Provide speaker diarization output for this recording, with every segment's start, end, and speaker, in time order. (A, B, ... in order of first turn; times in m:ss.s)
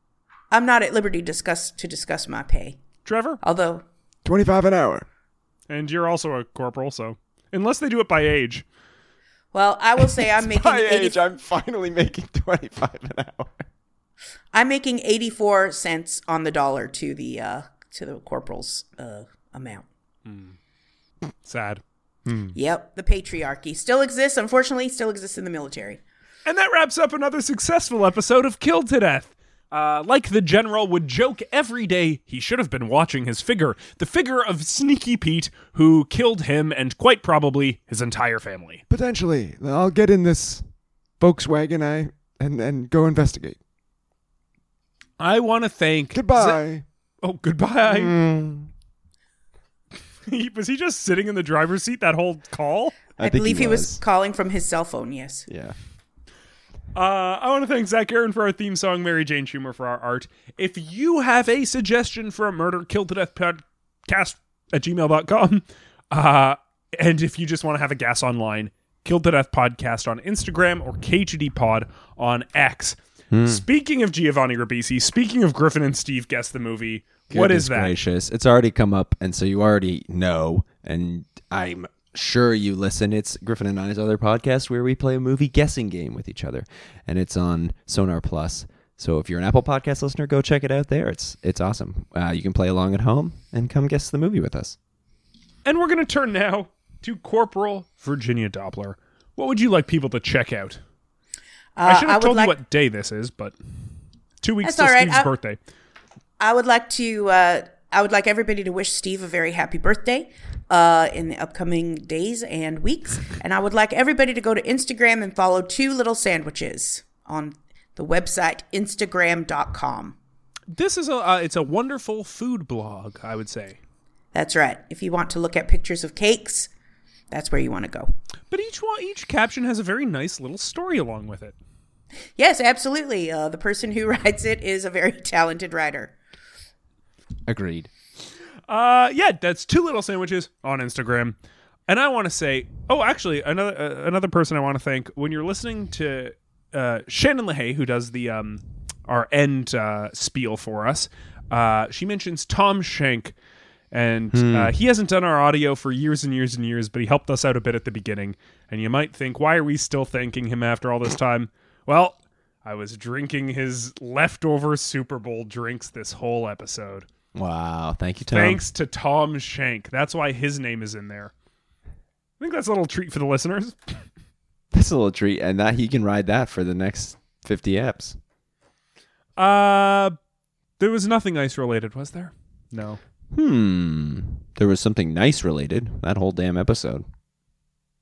0:00.5-0:02.8 A
0:03.0-0:03.4 B
0:03.4-0:03.8 A
0:04.2-0:05.1 C
0:05.7-0:08.6 B
0:09.5-0:11.2 A
0:10.2-0:13.6 C
0:14.5-0:19.9 A
0:20.3-0:20.6 B
0:21.4-0:21.8 B
0:22.6-0:26.0 A
0:26.5-0:38.8 B
0:38.9-0:40.6 C
0:41.2-0:43.6 C
0:45.2-0:46.6 B
0:46.1-0:46.8 C
0:47.2-0:48.1 B
0:47.9-0:48.6 D
0:50.3-0:53.0 B
0:53.2-0:54.0 D
0:53.2-0:55.5 A
0:55.5-0:55.8 D
0:56.9-1:17.9 B
1:13.3-1:13.6 D
1:17.3-1:34.8 D
1:35.6-1:40.8 B
1:41.8-1:42.6 A
1:41.8-1:43.5 B
1:44.4-1:45.6 B
1:44.6-1:45.3 A
1:46.4-2:00.2 A
2:00.7-2:03.8 B
2:04.3-2:06.7 A
2:07.3-2:08.1 A
2:08.5-2:11.6 B
2:12.4-2:16.2 A
2:17.5-2:17.9 D
2:18.7-2:21.4 B
2:21.9-2:33.3 B
2:33.9-2:47.1 B
2:34.3-2:34.7 D
2:47.4-2:48.6 D
2:48.3-2:51.3 B
2:52.4-2:54.0 B
2:54.7-2:58.2 D
2:59.4-3:00.2 B
3:00.8-3:03.0 B
3:03.3-3:07.1 D